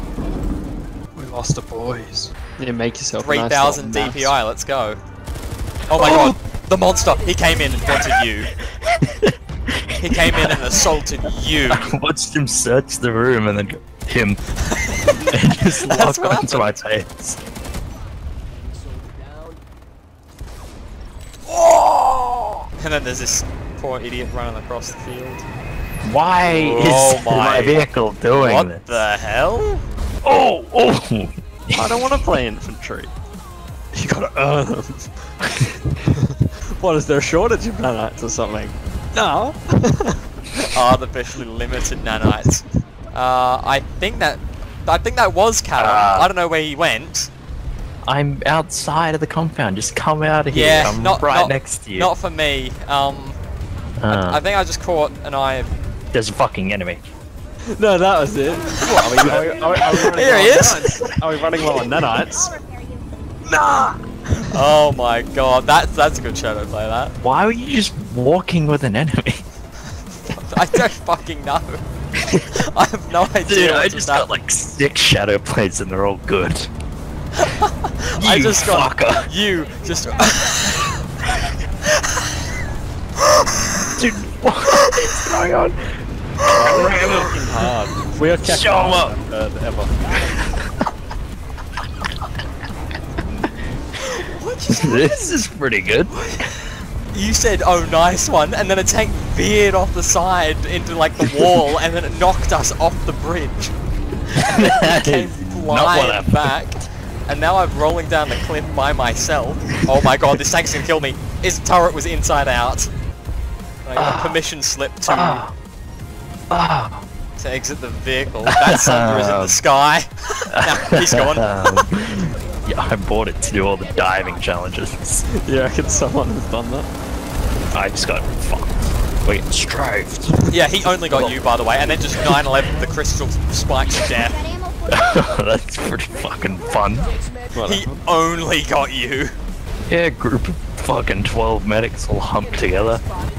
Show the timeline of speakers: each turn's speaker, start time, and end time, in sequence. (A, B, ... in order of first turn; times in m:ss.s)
0:01.1-0:04.3 A
0:03.2-0:05.0 B
0:05.9-0:08.5 B
0:05.9-0:06.4 C
0:08.8-0:09.3 C
0:10.0-0:11.9 B
0:10.0-0:10.8 C
0:11.7-0:14.4 C
0:14.7-0:17.4 B
0:15.3-0:17.1 C
0:21.5-0:22.0 B
0:22.8-0:25.4 B
0:26.0-0:29.0 C
0:26.4-0:29.8 B
0:30.2-0:32.0 C
0:31.7-0:33.1 A
0:33.9-0:40.2 A
0:40.7-0:47.3 B
0:45.8-0:46.3 C
0:48.0-0:52.1 C
0:50.5-0:53.4 B
0:54.0-0:54.4 C
0:54.1-0:55.7 B
0:56.1-0:57.0 C
0:57.7-1:02.6 A
0:58.9-1:01.1 B
1:03.5-1:04.0 A
1:04.5-1:07.1 B
1:07.2-1:09.4 C
1:10.2-1:11.8 B
1:12.5-1:14.3 B
1:13.4-1:16.7 C
1:17.4-1:20.8 B
1:18.2-1:19.3 C
1:23.4-1:23.8 B
1:23.9-1:25.8 C
1:26.4-1:27.5 C
1:26.5-1:29.9 A
1:28.4-1:29.2 C
1:34.0-1:35.4 B
1:34.7-1:36.2 C
1:37.1-1:43.7 B
1:44.3-1:46.5 C
1:44.5-1:52.9 B
1:53.8-1:55.4 B
1:54.0-1:54.4 C
1:55.1-1:55.5 C
1:56.5-1:57.0 C
1:57.4-2:01.8 B
1:58.4-1:59.6 C
2:00.5-2:05.2 C
2:05.4-2:06.9 A
2:07.7-2:10.3 C
2:10.5-2:14.5 B
2:11.1-2:11.4 C
2:14.9-2:17.1 C
2:17.5-2:18.0 A
2:17.6-2:19.3 B
2:19.9-2:23.0 C